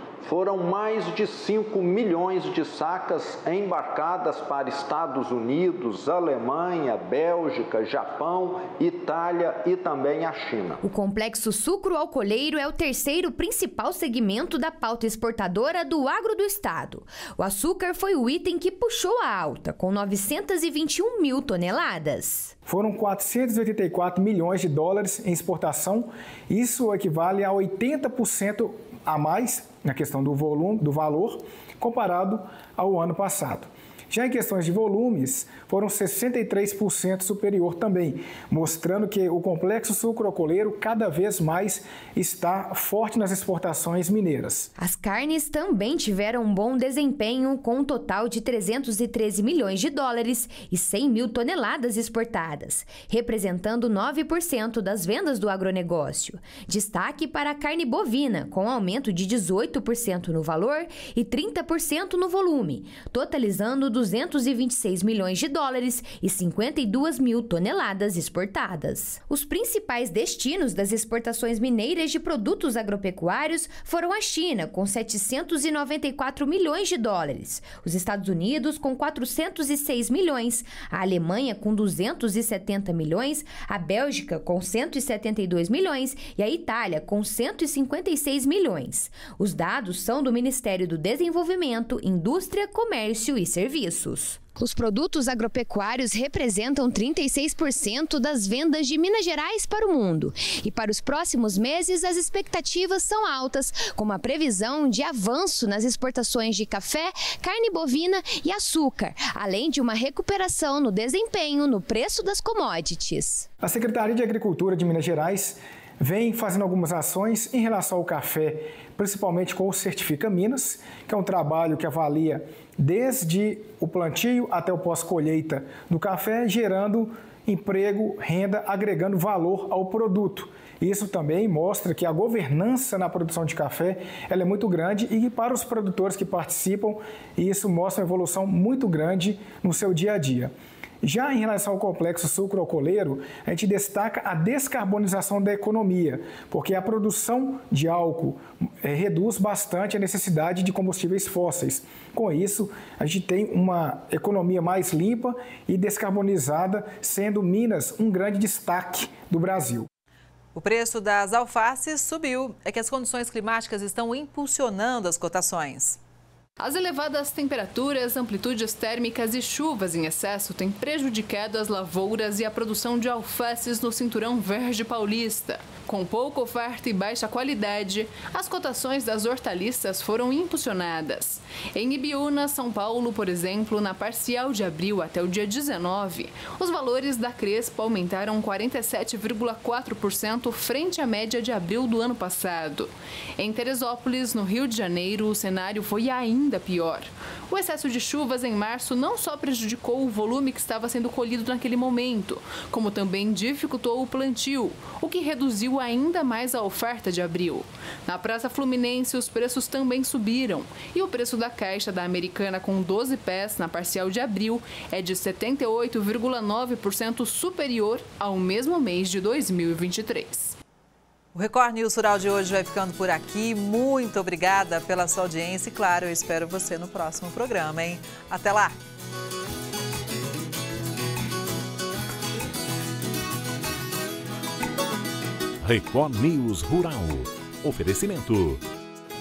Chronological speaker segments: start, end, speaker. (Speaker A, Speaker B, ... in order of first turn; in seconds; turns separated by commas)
Speaker A: 0.2-10.8, Speaker B: 10.8-22.5, Speaker C: 22.7-44.7, Speaker B: 44.8-113.5, Speaker C: 113.6-140.5, Speaker C: 141.0-159.9, Speaker D: 160.5-166.0, Speaker E: 166.6-220.5, Speaker D: 221.3-228.7, Speaker F: 235.6-238.6